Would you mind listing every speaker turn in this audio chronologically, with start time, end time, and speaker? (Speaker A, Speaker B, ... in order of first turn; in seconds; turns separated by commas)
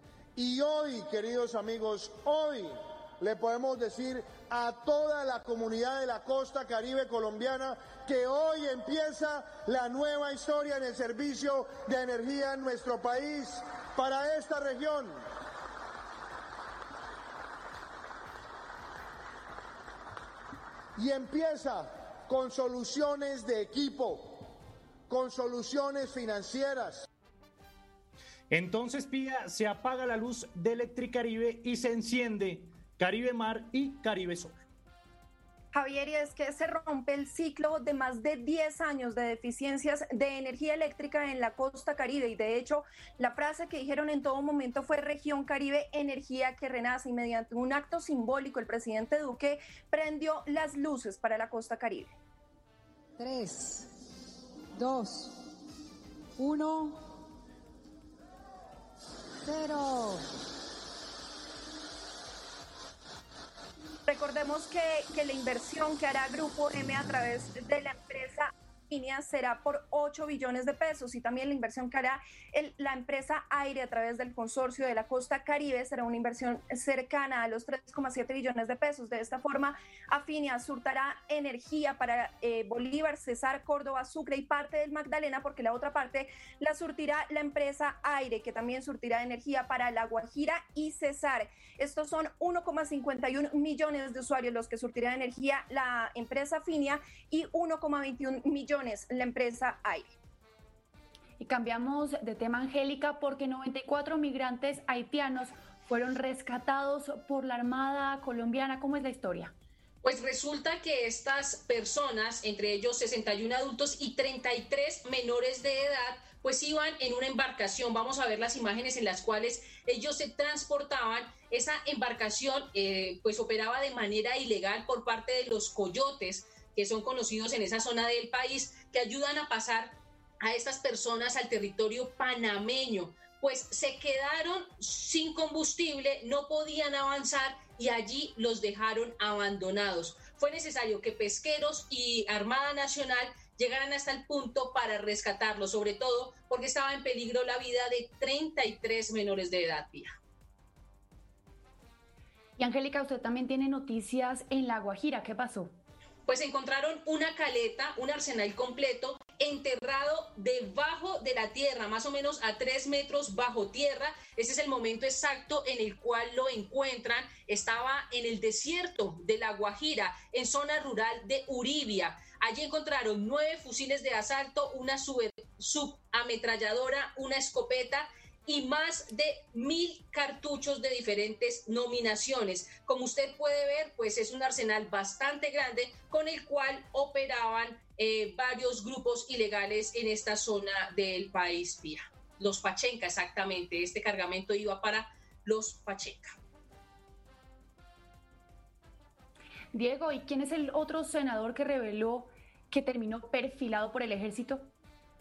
Speaker A: 0.3-15.2, Speaker A: 20.9-24.5, Speaker A: 25.1-27.1, Speaker B: 28.5-34.5, Speaker C: 35.7-52.1, Speaker D: 53.2-53.9, Speaker D: 54.7-55.4, Speaker D: 56.4-57.0, Speaker D: 59.4-60.2, Speaker C: 64.1-100.1, Speaker E: 101.4-109.5, Speaker F: 110.0-150.1, Speaker E: 152.6-155.8, Speaker F: 156.3-196.3, Speaker E: 199.7-204.7